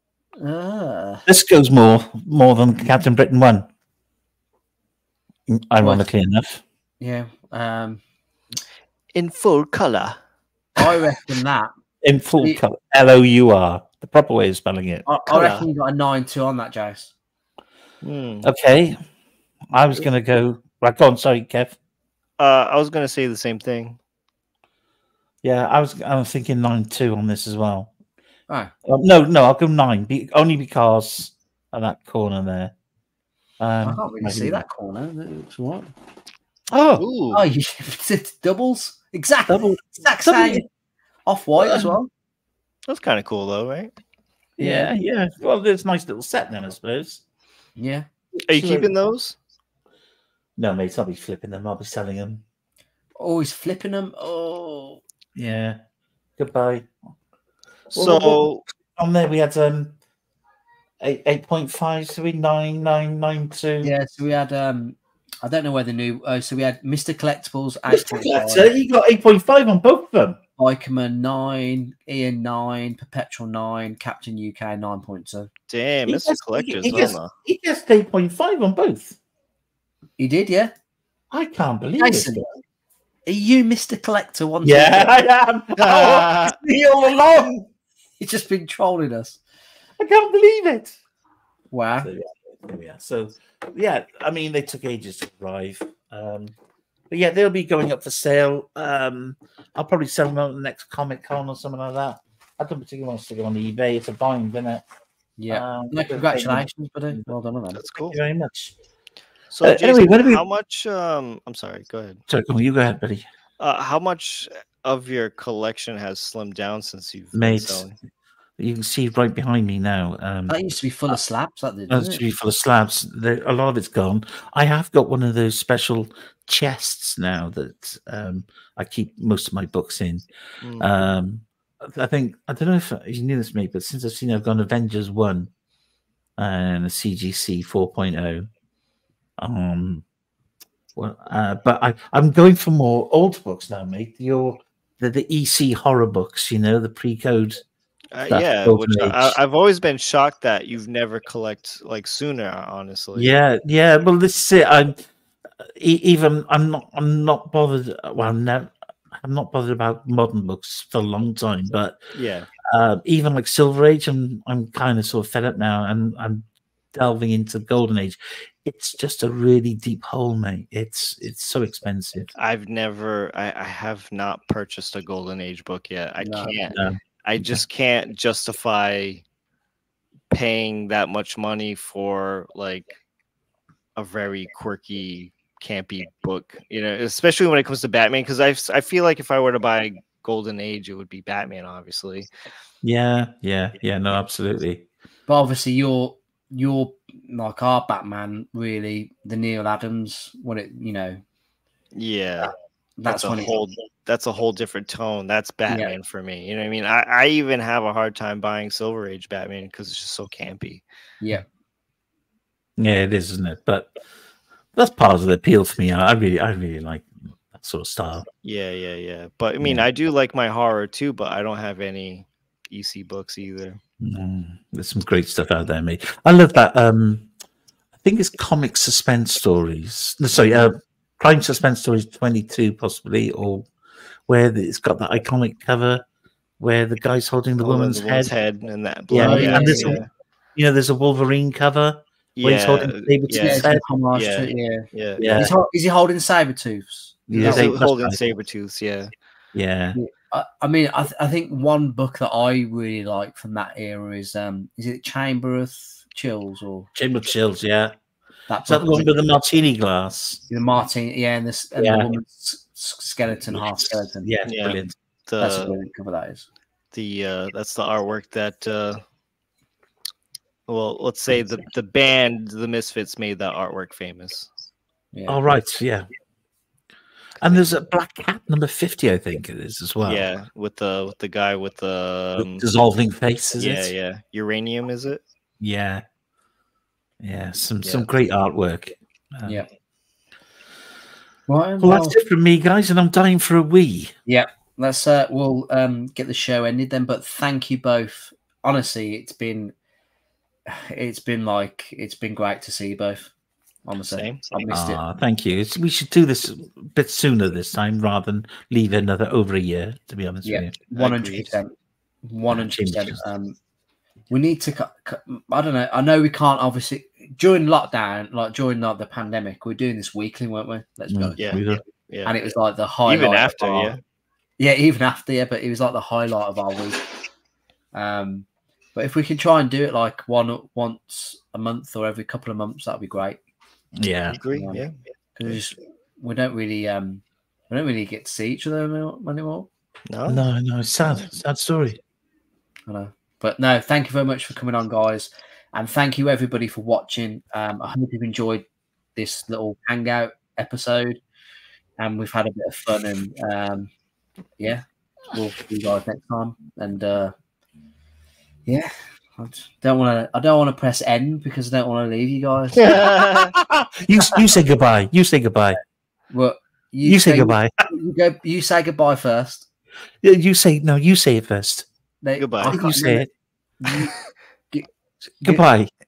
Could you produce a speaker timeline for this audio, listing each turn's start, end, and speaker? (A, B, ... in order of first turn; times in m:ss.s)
0:00.4-0:01.3 A
0:01.3-0:03.7 B
0:05.5-0:06.6 B
0:05.8-0:06.0 A
0:07.0-0:08.0 A
0:09.1-0:10.2 C
0:10.8-0:11.7 A
0:12.0-0:15.6 B
0:15.0-0:17.1 A
0:18.0-0:18.5 C
0:18.4-0:19.0 B
0:19.7-0:21.8 B
0:22.4-0:24.0 C
0:25.4-0:27.9 B
0:28.8-0:32.7 B
0:33.6-0:34.6 B
0:33.8-0:35.9 A
0:36.7-0:37.0 B
0:37.0-0:37.4 C
0:37.3-0:40.6 A
0:39.5-0:40.6 B
0:41.2-0:42.1 A
0:41.6-0:41.9 B
0:42.9-0:43.9 C
0:44.6-0:47.2 B
0:44.6-0:44.9 A
0:47.8-0:48.1 A
0:48.3-0:48.9 B
0:48.5-0:49.4 C
0:50.6-0:52.4 B
0:53.2-0:55.0 A
0:55.3-0:55.8 B
0:56.4-0:56.9 B
0:57.9-0:58.6 C
0:57.9-1:00.0 B
1:01.0-1:03.9 B
1:03.8-1:08.7 A
1:07.9-1:10.4 B
1:10.6-1:15.5 A
1:15.7-1:17.3 C
1:16.1-1:19.2 B
1:20.2-1:20.7 A
1:21.3-1:22.4 B
1:22.0-1:22.4 A
1:23.2-1:25.2 A
1:24.6-1:27.7 B
1:25.8-1:26.6 C
1:28.2-1:29.4 A
1:30.0-1:31.0 B
1:31.7-1:32.1 A
1:32.0-1:36.5 B
1:37.1-1:44.8 B
1:45.4-1:47.8 A
1:45.5-1:47.3 B
1:47.7-1:48.2 C
1:48.0-1:48.7 B
1:49.5-1:52.2 C
1:49.6-1:50.4 B
1:52.3-1:53.2 B
1:53.6-1:57.9 C
1:57.3-1:57.8 B
1:58.6-2:00.6 B
2:00.5-2:02.2 A
2:01.9-2:10.2 B
2:10.6-2:10.9 C
2:10.8-2:15.5 B
2:16.4-2:18.5 B
2:19.4-2:20.0 B
2:21.0-2:27.6 B
2:28.1-2:33.3 C
2:28.3-2:29.4 B
2:33.2-2:35.0 B
2:35.6-2:42.0 B
2:42.1-2:42.5 C
2:42.7-2:46.4 B
2:46.9-2:52.3 B
2:52.3-2:59.2 C
2:56.2-2:56.5 A
2:56.7-2:57.6 B
3:00.3-3:02.9 C
3:04.0-3:12.3 C
3:12.8-3:14.8 B
3:15.3-3:21.2 A
3:21.9-3:22.5 C
3:23.0-3:23.5 A
3:23.0-3:30.8 C
3:25.7-3:25.9 A
3:32.8-3:33.9 B
3:34.7-3:38.2 B
3:38.4-3:43.8 C
3:44.0-3:47.3 B
3:48.0-3:53.7 B
3:54.3-3:56.0 B
3:56.6-3:58.3 B
3:57.6-4:00.1 C
3:59.1-4:03.8 B
3:59.1-4:00.0 A
4:02.4-4:05.2 C
4:03.3-4:07.7 A
4:05.2-4:05.5 B
4:07.3-4:08.2 B
4:07.4-4:09.1 C
4:09.5-4:10.0 B
4:09.9-4:16.9 A
4:16.9-4:17.9 B
4:18.5-4:19.1 A
4:18.7-4:20.4 B
4:20.5-4:24.3 A
4:21.8-4:22.1 B
4:23.5-4:25.0 B
4:24.4-4:25.7 C
4:25.4-4:26.5 A
4:26.9-4:29.0 C
4:30.7-4:34.5 C
4:35.1-4:35.6 A
4:35.3-4:36.1 B
4:37.4-4:37.7 C
4:37.4-4:40.3 B
4:40.0-4:42.6 C
4:42.4-4:43.9 B
4:43.6-4:45.2 C
4:45.6-4:46.0 B
4:47.2-4:49.6 B
4:51.5-4:52.2 A
4:51.8-4:54.1 B
4:54.2-4:59.7 A
5:00.7-5:03.3 A
5:03.8-5:05.0 A
5:04.1-5:04.6 C
5:04.7-5:10.7 B
5:10.4-5:11.7 A
5:10.9-5:11.5 C
5:12.2-5:13.6 A
5:12.5-5:13.2 B
5:14.3-5:21.4 A
5:21.1-5:21.8 B
5:21.4-5:22.4 C
5:22.2-5:23.9 A
5:23.0-5:24.0 C
5:24.6-5:27.0 A
5:27.9-5:33.4 A
5:34.0-5:34.4 B
5:34.3-5:34.9 C
5:34.5-5:34.8 A
5:35.4-5:39.7 A
5:40.1-5:40.4 C
5:40.3-5:42.0 B
5:42.9-5:51.2 A
5:52.0-5:53.9 A
5:54.6-5:57.3 A
5:58.7-6:03.1 A
6:02.8-6:03.5 C
6:02.9-6:05.8 B
6:06.3-6:09.7 A
6:07.0-6:07.7 B
6:10.2-6:11.8 B
6:12.2-6:13.3 A
6:12.4-6:12.8 C
6:12.6-6:13.3 B
6:13.8-6:14.1 A
6:15.4-6:15.9 B